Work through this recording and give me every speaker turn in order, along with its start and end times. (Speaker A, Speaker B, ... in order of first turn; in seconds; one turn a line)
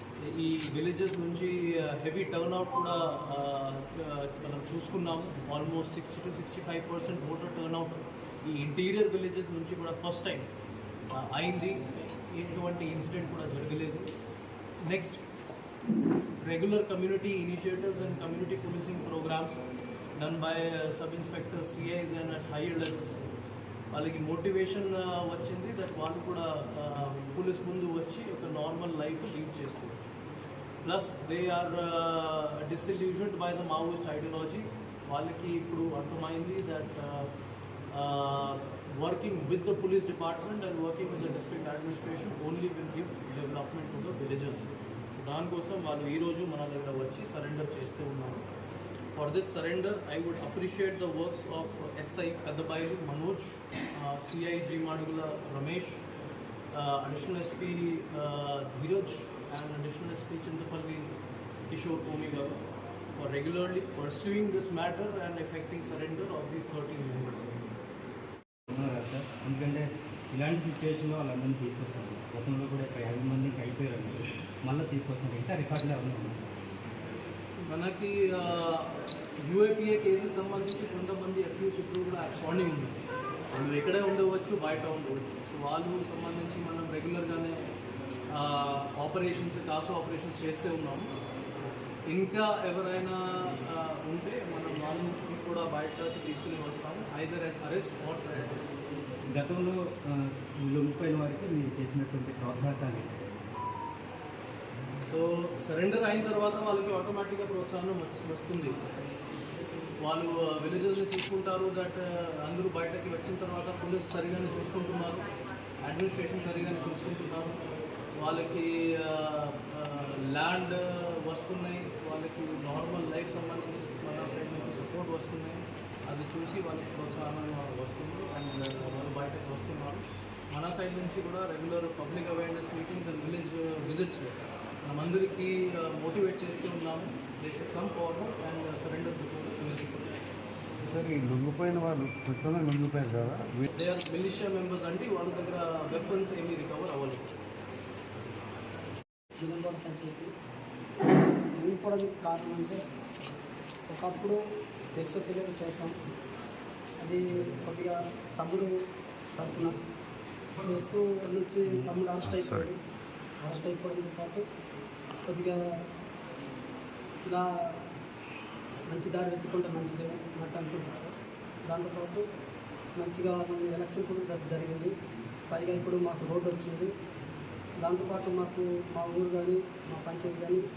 Speaker A: 0.2-10.5
Speaker A: 11.1-14.1
Speaker A: 14.9-15.2
Speaker A: 16.4-19.6
Speaker A: 20.2-23.3
Speaker A: 23.9-30.1
Speaker A: 30.8-37.3
Speaker A: 37.9-48.4
Speaker A: 49.1-56.0
Speaker A: 56.7-61.1
Speaker A: 61.7-62.6
Speaker A: 63.1-67.7
Speaker B: 68.7-76.4
Speaker A: 77.6-83.0
Speaker A: 83.5-87.7
Speaker A: 88.3-91.1
Speaker A: 92.1-98.7
Speaker B: 99.3-103.1
Speaker A: 105.1-108.8
Speaker A: 110.0-115.3
Speaker A: 115.8-117.6
Speaker A: 118.2-134.3
Speaker A: 134.9-140.2
Speaker C: 140.8-143.6
Speaker A: 143.7-147.2
Speaker D: 149.4-150.3
Speaker D: 151.6-152.8
Speaker D: 153.9-154.4
Speaker D: 155.0-155.9
Speaker D: 157.0-158.7
Speaker D: 159.4-159.7
Speaker D: 160.6-162.8
Speaker C: 162.2-162.7
Speaker D: 163.4-164.4
Speaker D: 165.3-165.6
Speaker D: 168.9-171.2
Speaker D: 171.7-172.2
Speaker D: 173.0-174.9
Speaker D: 175.5-176.9
Speaker D: 177.8-180.6